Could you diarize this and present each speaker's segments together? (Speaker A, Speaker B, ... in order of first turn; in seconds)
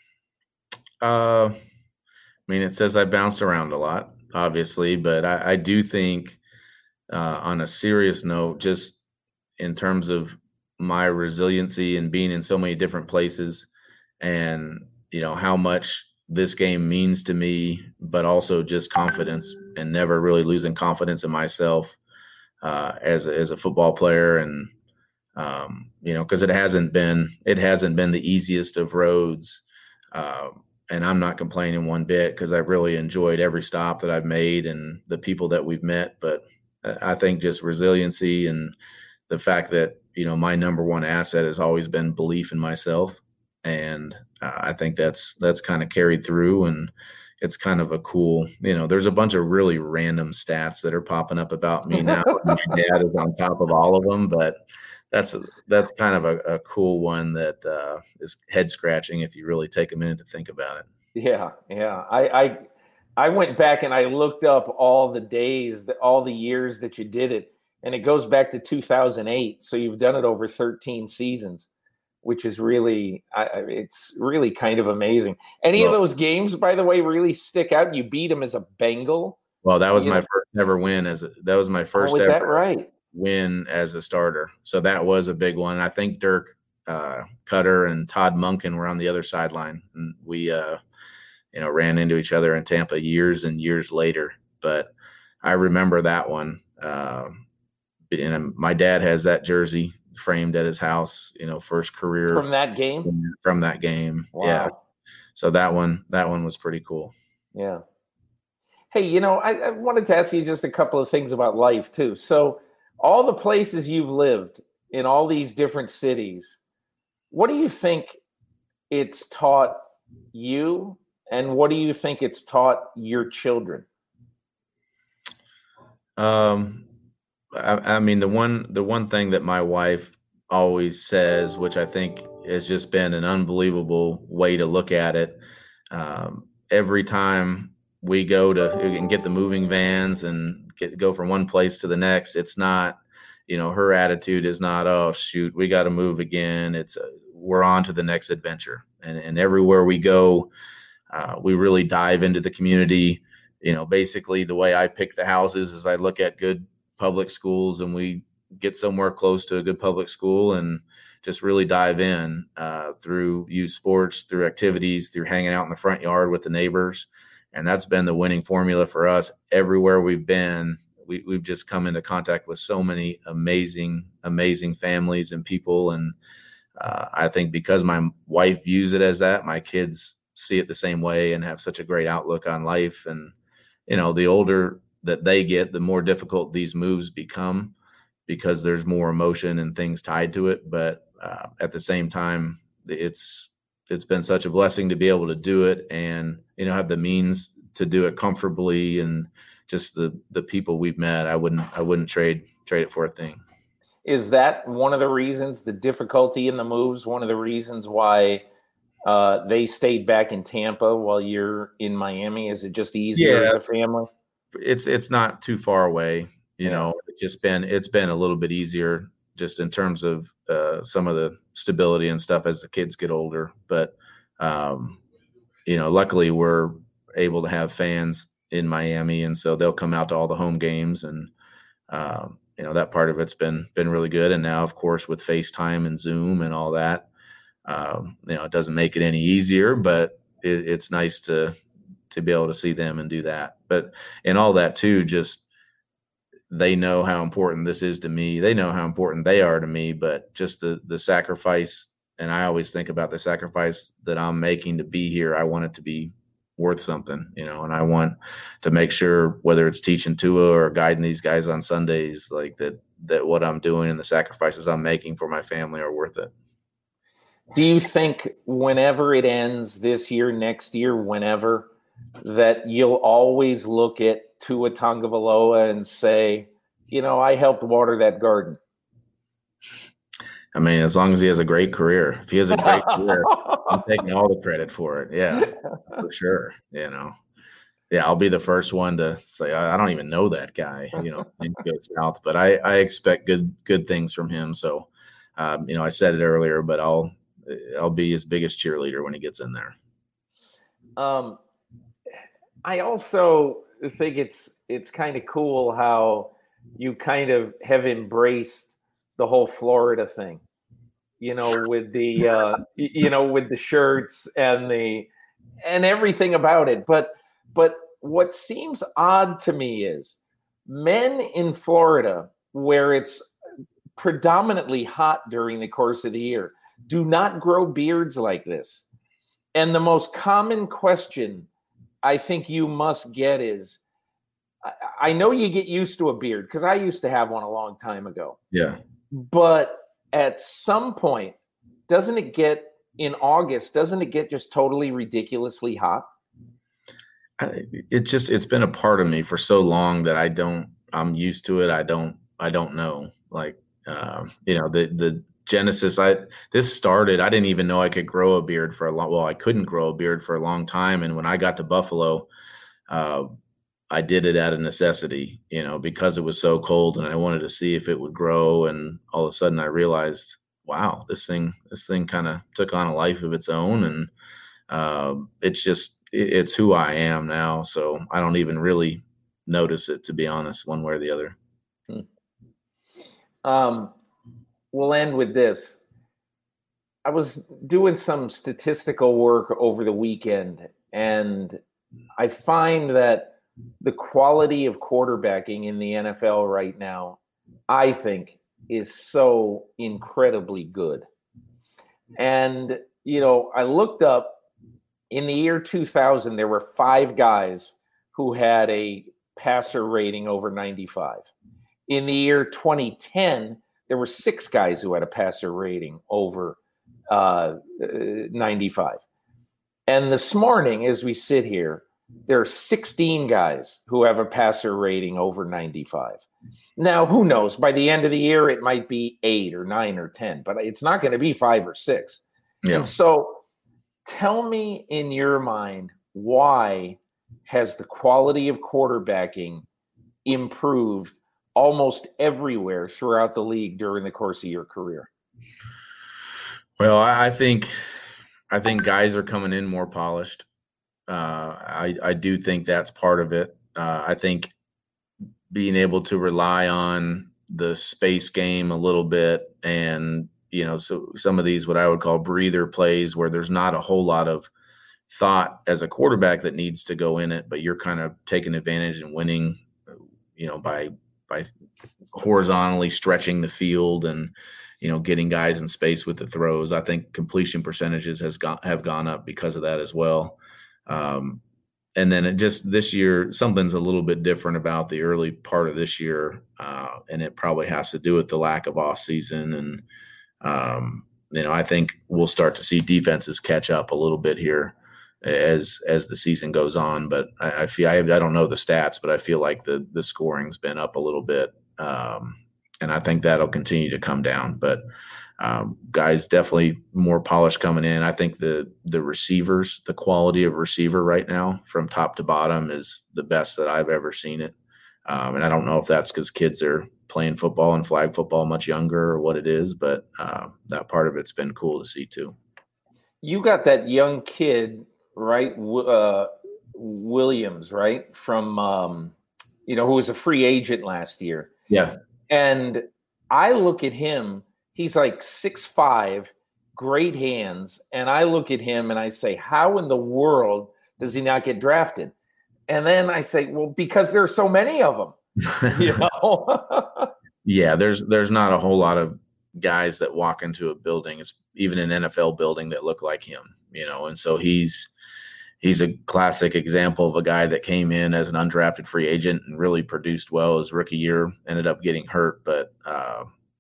Speaker A: 1.0-1.6, 2.5-6.4, 7.1-9.0, 9.6-13.7, 14.2-22.0, 22.6-24.7, 25.4-38.8, 39.3-54.6, 55.1-60.9, 79.6-82.6, 83.1-90.8, 91.5-94.9, 95.4-97.4, 98.1-102.5, 103.0-104.7, 105.4-107.1, 126.2-126.9, 127.5-135.4, 135.9-150.5, 151.1-176.2, 176.8-183.3, 183.9-187.7, 188.3-203.4, 213.2-213.6, 214.6-225.0, 225.7-231.3, 231.9-237.1, 237.7-241.6, 242.1-245.5, 246.5-266.3, 280.5-287.1, 287.9-299.8, 338.5-338.8, 347.4-362.3, 362.9-363.3, 363.9-374.1, 374.7-381.4, 432.6-432.9, 446.8-447.7, 448.5-450.4, 451.1-454.5, 455.5-464.5, 465.1-469.6, 470.4-471.5, 472.1-481.4, 482.0-489.8, 490.4-504.8, 505.4-514.5, 515.1-522.4, 531.7-532.0, 547.4-554.9, 555.6-563.3
Speaker B: 52.2-52.5, 61.1-71.7, 72.2-79.4, 80.0-80.2, 82.0-82.9, 102.3-103.1, 104.3-104.8, 107.5-107.8, 108.9-116.6, 117.3-118.2, 118.9-123.9, 204.1-208.4, 209.1-214.1, 267.5-271.7, 272.2-278.6, 282.7-283.6, 285.4-285.7, 301.0-301.4, 302.6-310.4, 311.2-315.1, 315.6-323.3, 324.0-328.9, 329.5-331.5, 332.0-333.8, 334.6-338.4, 339.1-341.4, 341.9-346.1, 383.4-383.9, 384.7-385.8, 387.1-391.6, 392.2-397.2, 397.7-401.1, 402.2-404.4, 405.1-411.3, 411.9-419.0, 419.9-433.4, 434.1-439.6, 440.2-445.1, 523.2-529.1, 529.7-531.5, 532.3-542.1, 542.7-547.1